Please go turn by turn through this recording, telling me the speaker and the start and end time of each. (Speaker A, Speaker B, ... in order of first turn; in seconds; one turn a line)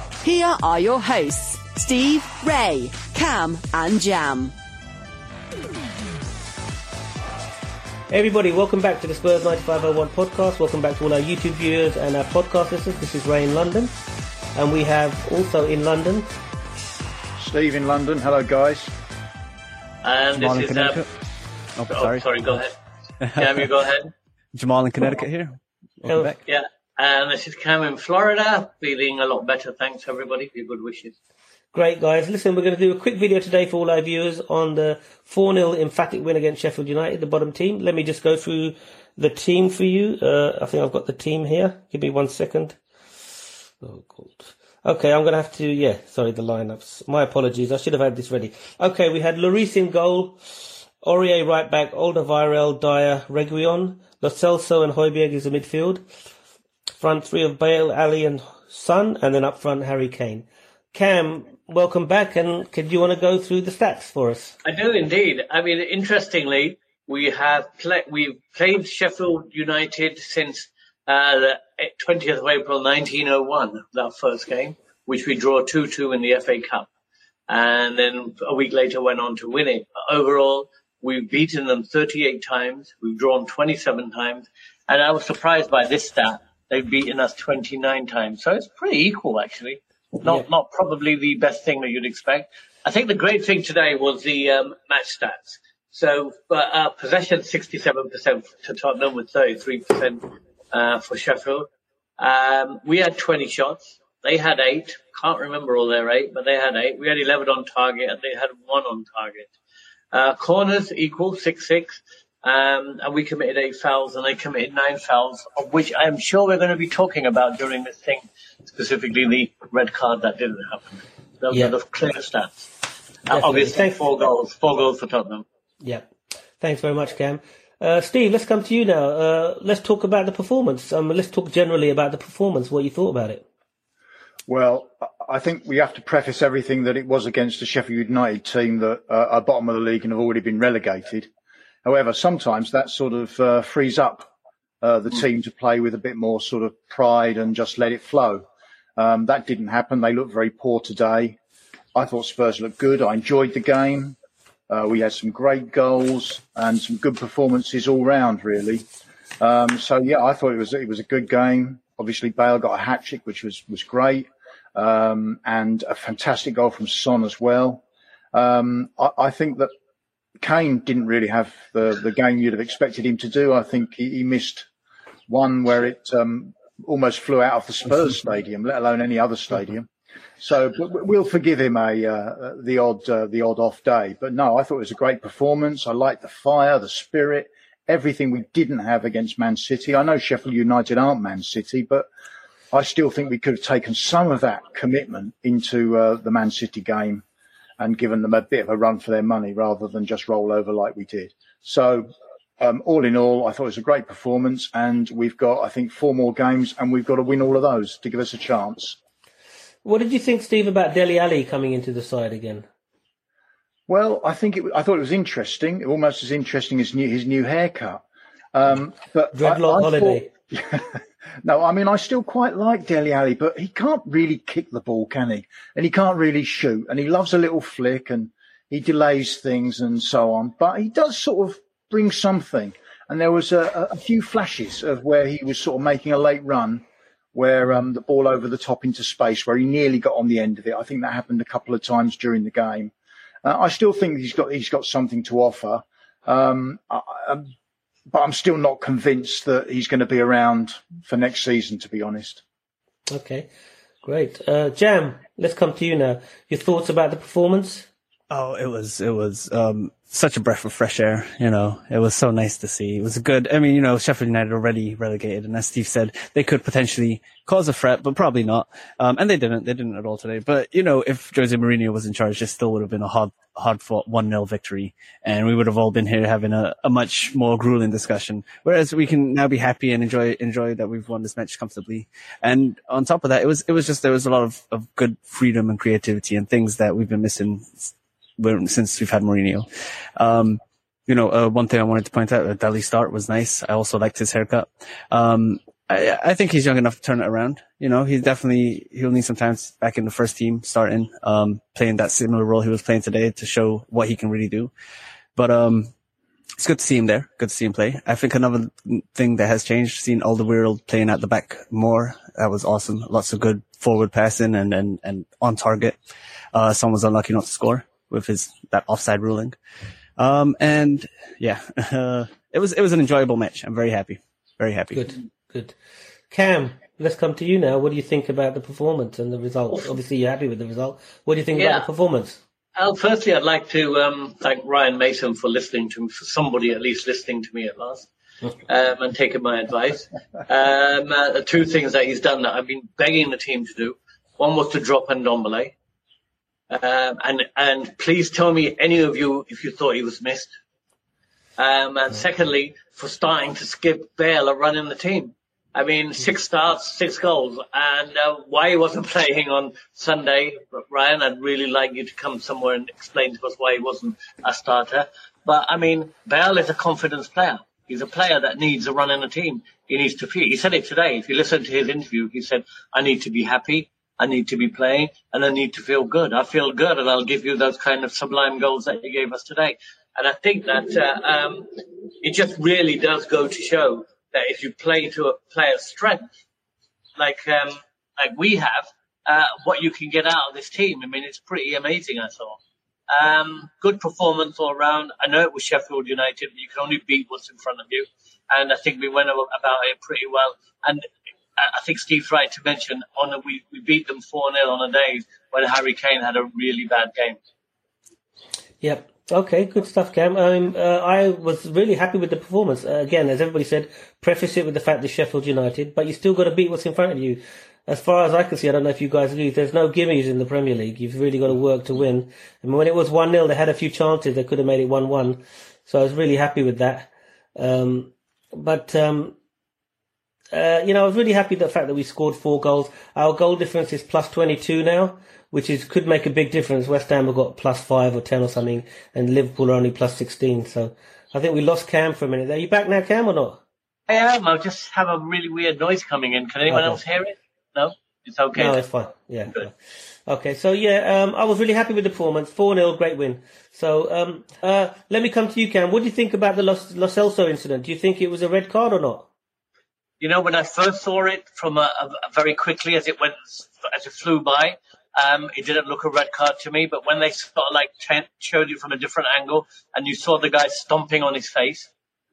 Speaker A: 0.2-4.5
Speaker B: 8.1-13.9
Speaker B: 14.5-16.3
Speaker C: 17.4-18.9
Speaker D: 20.0-21.0
Speaker E: 20.3-21.1
Speaker E: 21.8-22.2
Speaker D: 21.9-22.7
Speaker E: 23.2-23.6
Speaker D: 23.3-24.1
Speaker E: 24.5-26.4
Speaker D: 26.4-31.1
Speaker B: 31.7-42.8
Speaker B: 43.8-50.4
Speaker B: 51.0-56.0
Speaker B: 57.0-64.5
Speaker D: 64.6-76.9
Speaker D: 77.5-101.7
Speaker D: 102.2-109.5
Speaker D: 110.1-122.7
Speaker D: 123.3-125.4
Speaker B: 123.3-124.0
Speaker B: 125.8-126.1
Speaker B: 126.6-133.4
Speaker C: 134.5-141.3
Speaker C: 141.8-144.3
Speaker C: 144.8-148.4
Speaker C: 149.0-151.4
Speaker C: 151.9-154.2
Speaker C: 154.7-158.8
Speaker C: 159.4-169.7
Speaker C: 170.4-174.7
Speaker C: 175.3-192.1
Speaker C: 192.7-197.2
Speaker C: 197.8-209.0
Speaker B: 209.8-212.7
Speaker C: 213.9-242.9
Speaker B: 219.3-220.3
Speaker C: 243.4-247.5
Speaker C: 248.1-252.4
Speaker B: 253.1-253.5
Speaker B: 254.0-257.9
Speaker E: 258.3-289.6
Speaker E: 290.2-304.7
Speaker E: 305.4-305.9
Speaker E: 306.6-316.0
Speaker E: 316.5-319.6
Speaker E: 320.2-325.1
Speaker B: 324.9-325.7
Speaker B: 326.3-332.4
Speaker D: 331.5-331.9
Speaker D: 332.8-338.1
Speaker D: 338.7-345.7
Speaker D: 346.7-350.5
Speaker D: 351.6-386.2
Speaker D: 387.2-392.6
Speaker D: 393.1-401.1
Speaker D: 401.6-407.4
Speaker B: 408.8-429.4
Speaker B: 430.5-443.6
Speaker D: 444.1-448.8
Speaker B: 446.7-447.0
Speaker B: 448.5-449.7
Speaker B: 450.3-459.3
Speaker D: 460.2-471.9